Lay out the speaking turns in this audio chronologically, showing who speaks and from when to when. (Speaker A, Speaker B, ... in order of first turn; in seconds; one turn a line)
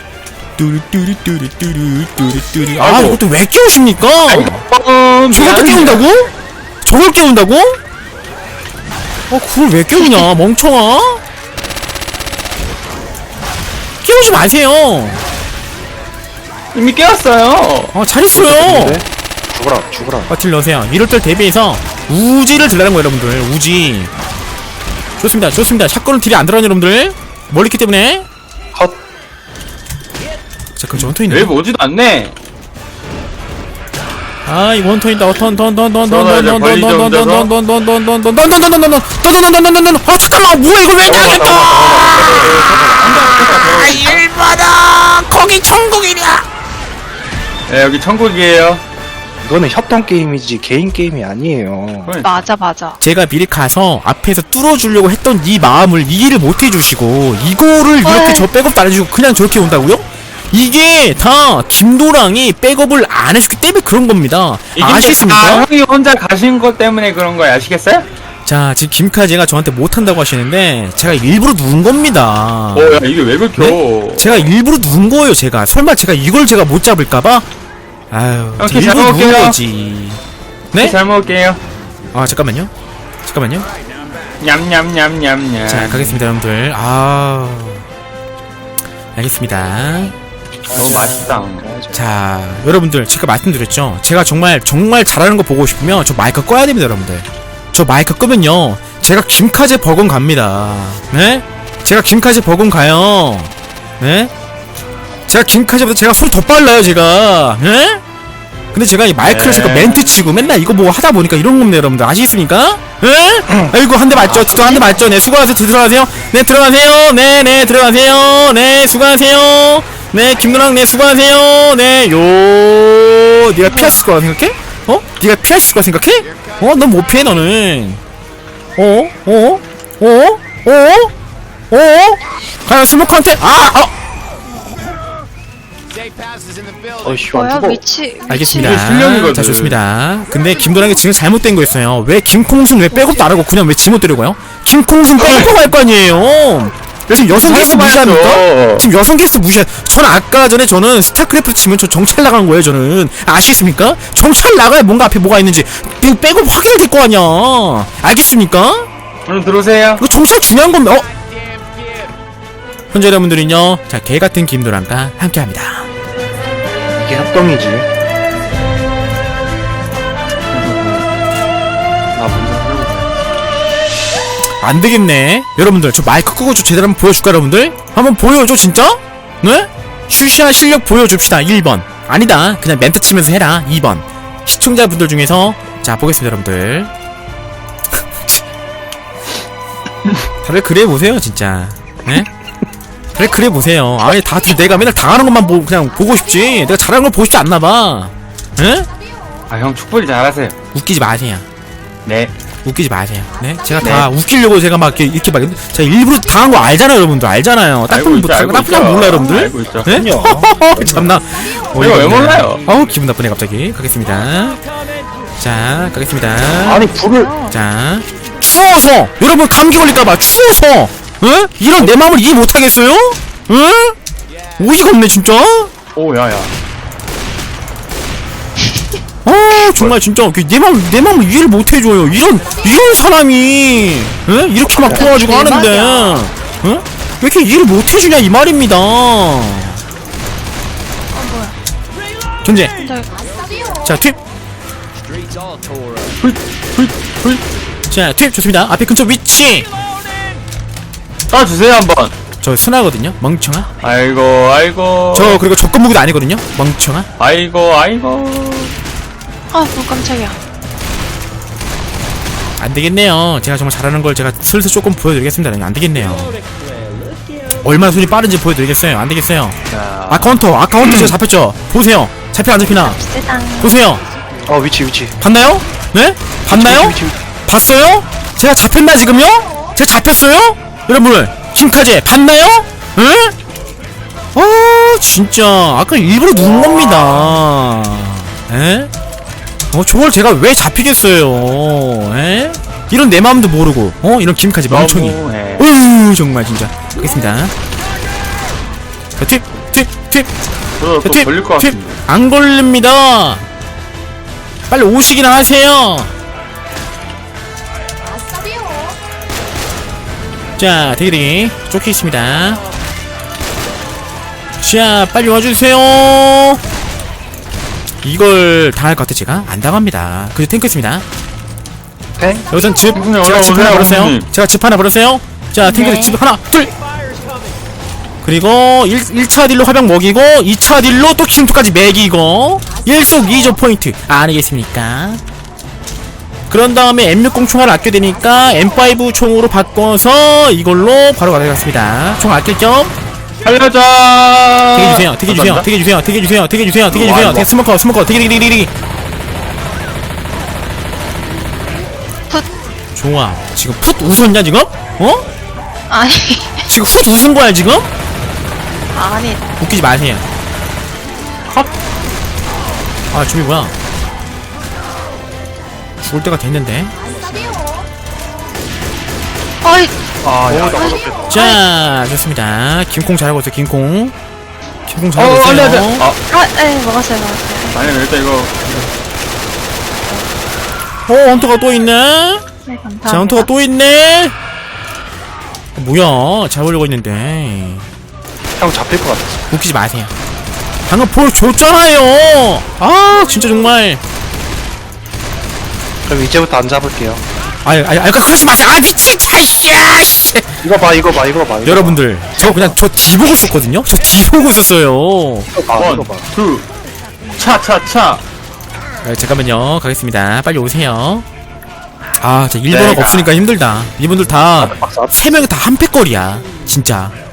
Speaker A: 0.6-4.6
Speaker B: 2.8-3.2
Speaker B: 4.2-6.1
Speaker A: 5.3-6.3
Speaker A: 6.8-7.8
Speaker A: 9.3-11.2
Speaker A: 14.0-15.2
Speaker B: 16.7-17.9
Speaker A: 17.9-19.0
Speaker C: 18.3-20.3
Speaker A: 20.3-24.1
Speaker A: 25.2-28.2
Speaker A: 30.8-31.5
Speaker B: 30.9-32.3
Speaker A: 34.5-42.5
Speaker B: 36.0-37.5
Speaker C: 41.0-43.6
Speaker B: 42.1-44.2
Speaker A: 43.0-46.5
Speaker B: 47.7-48.8
Speaker C: 49.4-52.1
Speaker B: 52.0-52.4
Speaker D: 52.2-53.0
Speaker A: 53.0-65.7
Speaker D: 58.0-58.5
Speaker B: 64.8-68.0
Speaker A: 68.5-73.0
Speaker B: 72.7-74.5
Speaker A: 73.6-77.4
Speaker A: 78.1-80.2
Speaker B: 78.6-79.6
Speaker B: 80.7-81.6
Speaker A: 82.1-82.7
Speaker A: 83.2-83.7
Speaker B: 84.4-86.2
Speaker A: 85.7-87.8
Speaker A: 89.2-90.1
Speaker C: 90.7-92.0
Speaker B: 90.7-91.7
Speaker A: 91.9-104.3
Speaker A: 105.3-108.0
Speaker A: 108.7-128.0
Speaker B: 109.2-110.1
Speaker C: 113.5-113.7
Speaker D: 114.5-114.8
Speaker D: 123.7-124.0
Speaker A: 128.8-131.1
Speaker A: 131.7-133.9
Speaker C: 137.0-137.8
Speaker D: 137.3-138.9
Speaker A: 138.3-158.9
Speaker B: 138.6-139.8
Speaker B: 147.1-148.9
Speaker B: 159.3-160.0
Speaker A: 160.0-161.1
Speaker A: 162.9-165.9
Speaker C: 167.0-167.8
Speaker B: 170.5-171.1
Speaker B: 172.2-173.2
Speaker A: 174.6-186.9
Speaker A: 190.4-192.3
Speaker A: 193.2-198.9
Speaker B: 199.5-200.6
Speaker A: 200.7-201.4
Speaker B: 202.0-202.3
Speaker A: 202.6-214.6
Speaker B: 203.8-204.1
Speaker B: 207.9-209.9
Speaker C: 209.8-211.1
Speaker B: 211.8-212.6
Speaker A: 215.4-223.9
Speaker C: 216.6-217.3
Speaker D: 217.0-217.5
Speaker A: 224.6-225.7
Speaker B: 225.9-226.5
Speaker A: 229.2-239.8
Speaker D: 234.8-236.3
Speaker D: 241.1-241.6
Speaker A: 242.4-242.7
Speaker D: 242.7-243.1
Speaker A: 243.8-244.2
Speaker B: 246.2-247.4
Speaker A: 247.9-249.7
Speaker B: 251.3-252.1
Speaker A: 252.4-253.7
Speaker B: 253.8-255.4
Speaker A: 255.1-257.1
Speaker B: 257.2-258.8
Speaker D: 259.5-260.4
Speaker A: 262.6-266.3
Speaker A: 267.6-269.6
Speaker B: 269.7-270.4
Speaker A: 270.1-273.0
Speaker C: 270.8-271.2
Speaker D: 272.7-273.8
Speaker A: 273.6-274.0
Speaker C: 274.4-275.2
Speaker A: 275.2-283.4
Speaker C: 276.5-277.1
Speaker A: 284.4-288.9
Speaker B: 286.7-287.1
Speaker A: 289.7-297.5
Speaker B: 294.7-295.7
Speaker A: 299.2-300.3
Speaker B: 300.8-302.0
Speaker A: 301.0-303.4
Speaker A: 304.7-306.1
Speaker A: 310.6-312.6
Speaker A: 314.6-316.6
Speaker A: 318.0-321.0
Speaker C: 322.2-322.5
Speaker A: 322.5-326.7
Speaker B: 322.9-324.3
Speaker D: 325.6-326.2
Speaker A: 328.2-335.2
Speaker A: 336.5-342.9
Speaker B: 343.4-345.7
Speaker A: 344.7-348.7
Speaker B: 346.9-347.5
Speaker A: 352.9-355.2
Speaker D: 355.9-356.6
Speaker A: 356.7-357.9
Speaker D: 358.9-359.5
Speaker A: 359.6-360.2
Speaker A: 363.1-363.7
Speaker A: 366.1-366.9
Speaker D: 369.6-369.9
Speaker B: 370.2-370.9
Speaker C: 370.5-371.4
Speaker D: 370.7-371.6
Speaker A: 371.3-374.1
Speaker A: 374.9-376.1
Speaker B: 375.1-376.2
Speaker D: 376.3-378.0
Speaker B: 377.8-378.9
Speaker A: 381.1-382.4
Speaker D: 382.6-383.5
Speaker A: 383.1-384.3
Speaker A: 385.8-387.9
Speaker C: 388.6-389.4
Speaker A: 389.5-390.1
Speaker A: 390.9-394.0
Speaker C: 396.1-397.2
Speaker A: 397.6-400.6
Speaker C: 400.6-402.8
Speaker A: 401.6-405.5
Speaker C: 405.5-406.2
Speaker B: 405.8-406.6
Speaker B: 407.4-408.2
Speaker A: 409.0-411.2
Speaker A: 412.2-417.1
Speaker C: 412.7-413.3
Speaker C: 414.6-415.3